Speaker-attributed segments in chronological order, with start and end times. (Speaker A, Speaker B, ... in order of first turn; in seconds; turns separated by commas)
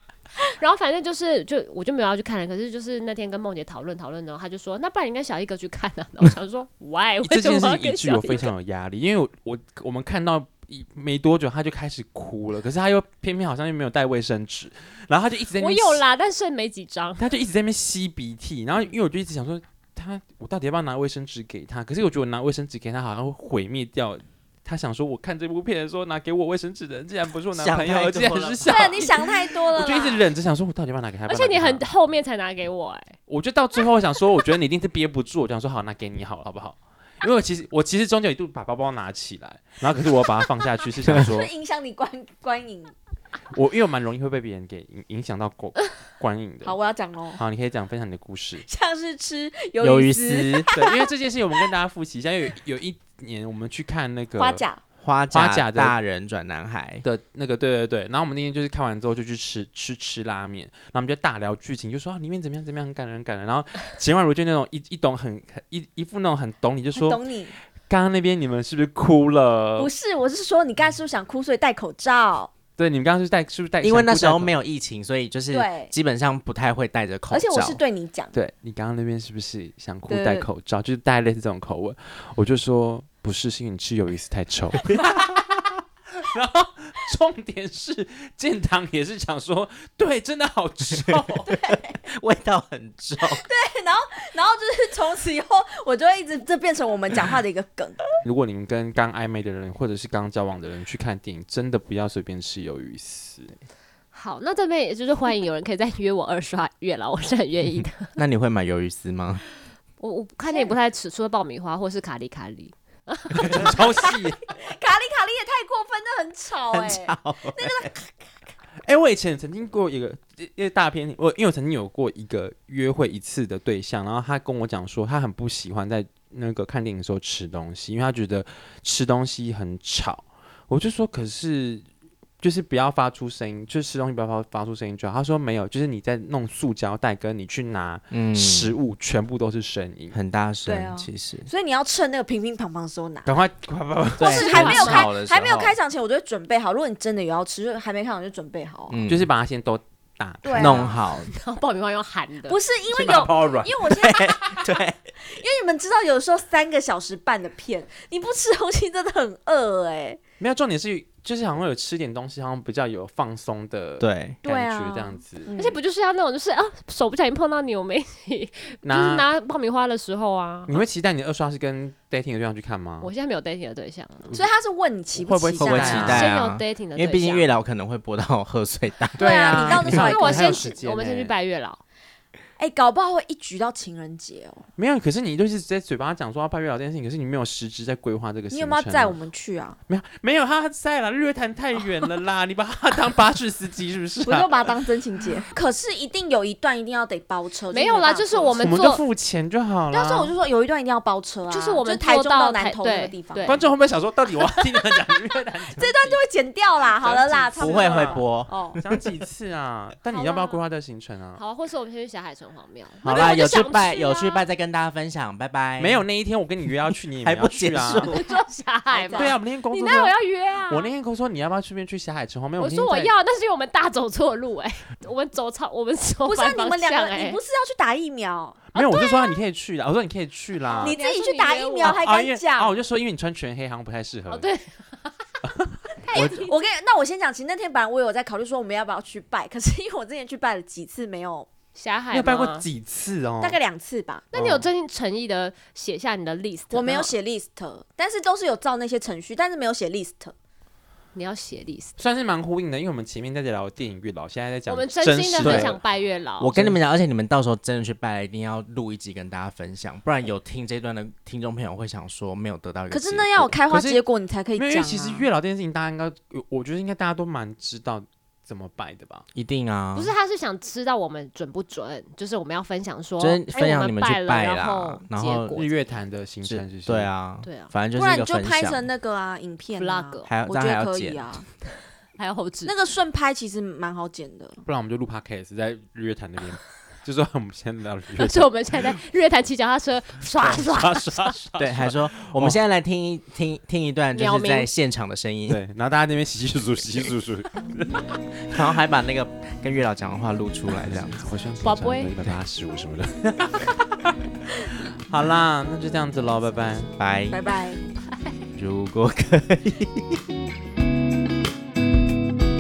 Speaker A: 0.4-8.5, Speaker B: 7.2-16.0, Speaker A: 15.6-17.2, Speaker B: 17.2-31.8, Speaker C: 27.6-29.2, Speaker D: 28.7-30.3, Speaker A: 31.3-33.2, Speaker B: 33.3-41.5, Speaker D: 41.1-42.9, Speaker B: 43.5-46.8, Speaker D: 46.6-47.4, Speaker B: 47.4-48.7, Speaker D: 48.6-51.6, Speaker C: 49.8-50.7, Speaker B: 50.7-54.6, Speaker D: 54.4-54.8, Speaker C: 55.0-57.0, Speaker B: 55.3-56.0, Speaker B: 57.0-67.2, Speaker D: 67.0-67.5, Speaker B: 67.9-69.9, Speaker D: 69.8-72.5, Speaker B: 72.8-74.5, Speaker C: 73.8-77.8, Speaker D: 75.5-75.9, Speaker D: 77.3-78.3, Speaker B: 78.3-91.5, Speaker D: 80.1-80.5, Speaker C: 91.1-91.4, Speaker D: 91.5-92.0, Speaker C: 92.0-93.4, Speaker D: 93.3-98.0, Speaker B: 98.2-103.5, Speaker A: 104.1-108.2, Speaker C: 108.2-109.4, Speaker A: 110.0-113.9, Speaker D: 110.5-110.7, Speaker B: 113.3-114.5, Speaker D: 113.6-118.5, Speaker C: 116.7-117.9, Speaker B: 118.8-131.8, Speaker B: 132.4-140.2, Speaker C: 138.1-138.8, Speaker C: 140.1-141.5, Speaker D: 140.7-143.3, Speaker B: 143.2-144.6, Speaker C: 144.2-145.8, Speaker D: 144.2-149.0, Speaker A: 144.4-145.1, Speaker C: 148.9-149.3, Speaker B: 149.1-150.8, Speaker D: 150.4-150.9, Speaker C: 150.6-151.3, Speaker A: 150.6-152.6, Speaker D: 152.5-154.6, Speaker B: 152.9-154.6, Speaker C: 153.9-155.0, Speaker D: 155.2-160.2, Speaker B: 160.4-165.5, Speaker C: 164.0-164.4, Speaker D: 164.4-165.8, Speaker A: 165.5-170.8, Speaker B: 168.8-169.3, Speaker B: 170.7-173.1, Speaker A: 173.0-174.3, Speaker D: 174.3-176.3, Speaker B: 175.2-176.3, Speaker C: 175.6-179.6, Speaker A: 176.0-177.6, Speaker B: 179.2-181.3, Speaker D: 179.2-180.7, Speaker A: 179.5-181.8, Speaker D: 182.6-184.7, Speaker B: 184.8-189.2, Speaker D: 188.5-189.8, Speaker B: 189.9-194.8, Speaker D: 194.2-198.9, Speaker A: 197.7-199.0, Speaker B: 198.6-200.3, Speaker D: 199.9-203.6, Speaker A: 201.5-203.7, Speaker B: 203.4-206.2, Speaker D: 205.8-208.8, Speaker B: 206.8-208.2, Speaker C: 207.6-209.1, Speaker B: 208.8-211.4, Speaker A: 210.1-210.6, Speaker A: 211.4-214.4, Speaker C: 213.0-216.0, Speaker B: 215.8-218.1, Speaker C: 217.2-218.3, Speaker A: 218.1-220.9, Speaker D: 218.2-219.4, Speaker B: 219.1-220.2, Speaker B: 220.7-223.1, Speaker A: 222.6-227.4, Speaker D: 226.2-228.9, Speaker B: 228.7-231.0, Speaker A: 228.9-229.2, Speaker A: 230.6-232.0, Speaker D: 230.8-232.7, Speaker B: 231.8-234.5, Speaker A: 234.3-235.2, Speaker B: 235.4-235.8, Speaker A: 236.0-236.5, Speaker D: 236.1-241.5, Speaker A: 241.8-242.7, Speaker B: 242.1-243.6, Speaker D: 243.4-244.3, Speaker A: 244.3-247.1, Speaker B: 244.3-244.7, Speaker D: 246.7-250.3, Speaker A: 251.2-252.0, Speaker B: 252.0-255.8, Speaker A: 254.7-256.6, Speaker C: 255.4-255.8, Speaker C: 256.4-263.6, Speaker D: 262.9-265.3, Speaker B: 263.7-264.0, Speaker B: 264.6-269.2, Speaker C: 269.4-270.1, Speaker A: 269.9-275.7, Speaker C: 273.2-275.6, Speaker B: 275.5-277.1, Speaker C: 276.4-278.9, Speaker A: 277.4-277.7, Speaker D: 277.9-281.5, Speaker A: 279.8-280.3, Speaker C: 280.3-281.4, Speaker A: 282.2-282.8, Speaker D: 282.6-284.6, Speaker B: 284.7-289.0, Speaker A: 288.2-291.4, Speaker B: 290.4-292.6, Speaker C: 291.6-295.6, Speaker A: 294.1-294.7, Speaker B: 295.5-298.6, Speaker C: 298.5-301.2, Speaker B: 300.7-306.9, Speaker A: 301.6-302.1, Speaker C: 307.0-307.4, Speaker D: 307.3-307.8, Speaker C: 308.6-310.2